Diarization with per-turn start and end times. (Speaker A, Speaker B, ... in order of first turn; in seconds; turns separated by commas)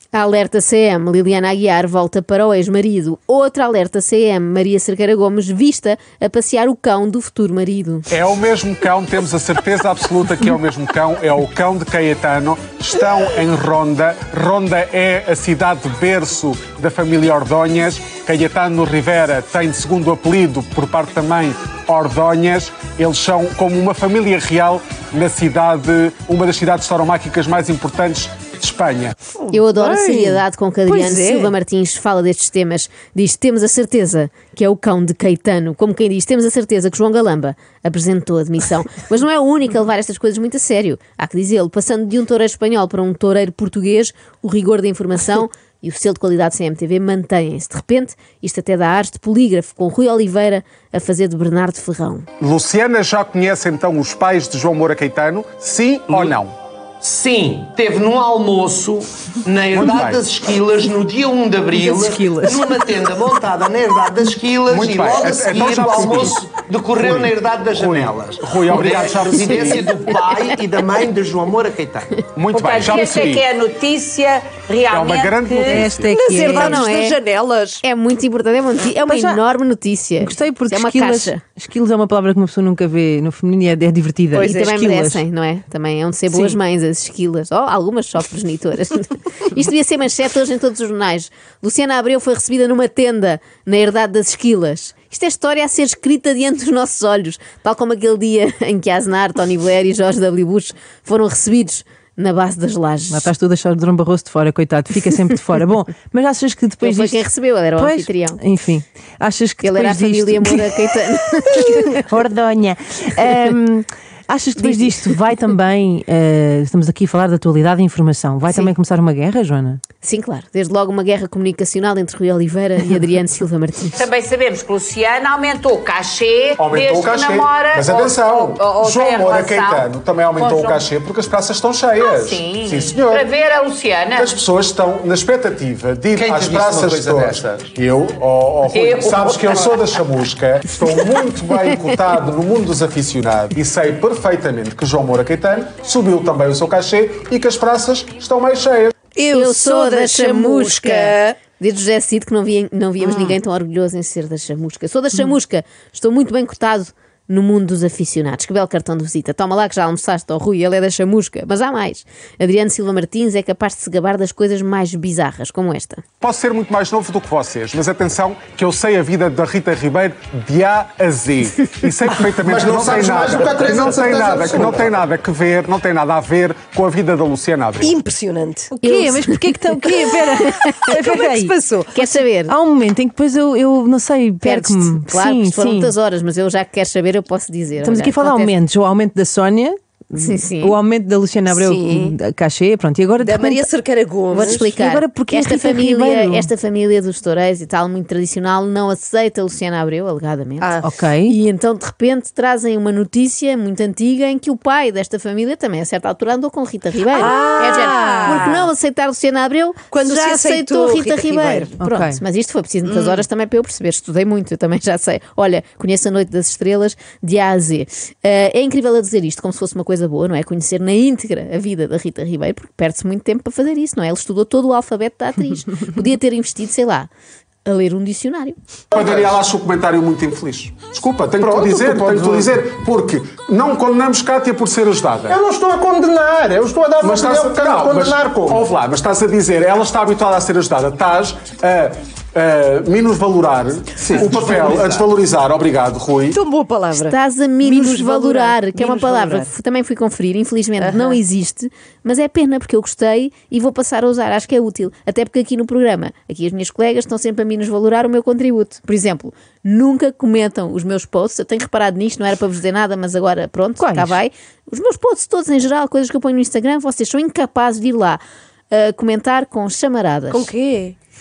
Speaker A: 0.1-8.1, Speaker B: 8.1-29.1, Speaker C: 29.4-31.6, Speaker A: 29.5-52.3, Speaker B: 52.4-56.5, Speaker D: 57.0-72.2, Speaker B: 59.7-60.2, Speaker E: 61.8-62.6, Speaker B: 64.7-66.4, Speaker B: 67.0-69.9, Speaker B: 72.3-73.5, Speaker F: 72.5-75.7, Speaker B: 74.9-76.2, Speaker C: 75.7-77.8, Speaker E: 75.7-76.8, Speaker A: 76.3-77.2, Speaker A: 77.8-81.4, Speaker E: 79.0-79.4, Speaker E: 80.2-85.2, Speaker C: 84.3-84.9, Speaker A: 84.3-103.3, Speaker E: 103.1-110.7, Speaker A: 106.8-108.4, Speaker A: 109.6-112.0, Speaker E: 111.7-119.8, Speaker A: 114.6-114.9, Speaker A: 120.0-124.0, Speaker F: 124.0-130.8, Speaker B: 126.6-133.3, Speaker F: 132.0-134.4, Speaker B: 134.1-148.9, Speaker D: 136.2-137.5, Speaker F: 138.7-139.8, Speaker C: 149.2-151.4, Speaker A: 149.3-166.0, Speaker C: 153.0-153.4, Speaker B: 166.2-177.9, Speaker G: 172.4-174.9, Speaker C: 177.8-178.7, Speaker E: 178.7-181.6, Speaker A: 178.9-179.2, Speaker C: 180.9-181.9, Speaker A: 181.9-182.5, Speaker E: 182.4-185.9, Speaker A: 184.4-188.6, Speaker E: 187.8-193.7, Speaker A: 190.2-190.8, Speaker C: 191.5-192.2, Speaker C: 193.2-194.7, Speaker A: 194.3-200.7, Speaker E: 194.4-196.5, Speaker E: 200.8-201.4, Speaker A: 201.3-227.1, Speaker C: 207.1-208.7, Speaker C: 209.9-211.8, Speaker E: 211.8-212.2, Speaker C: 212.8-213.2, Speaker A: 227.7-228.6, Speaker B: 228.9-235.4, Speaker G: 231.4-232.1, Speaker G: 235.3-238.6, Speaker B: 237.0-246.4, Speaker D: 244.1-245.0, Speaker C: 246.3-249.5, Speaker A: 246.9-270.5, Speaker C: 250.8-251.2, Speaker E: 263.8-264.2, Speaker C: 270.3-270.9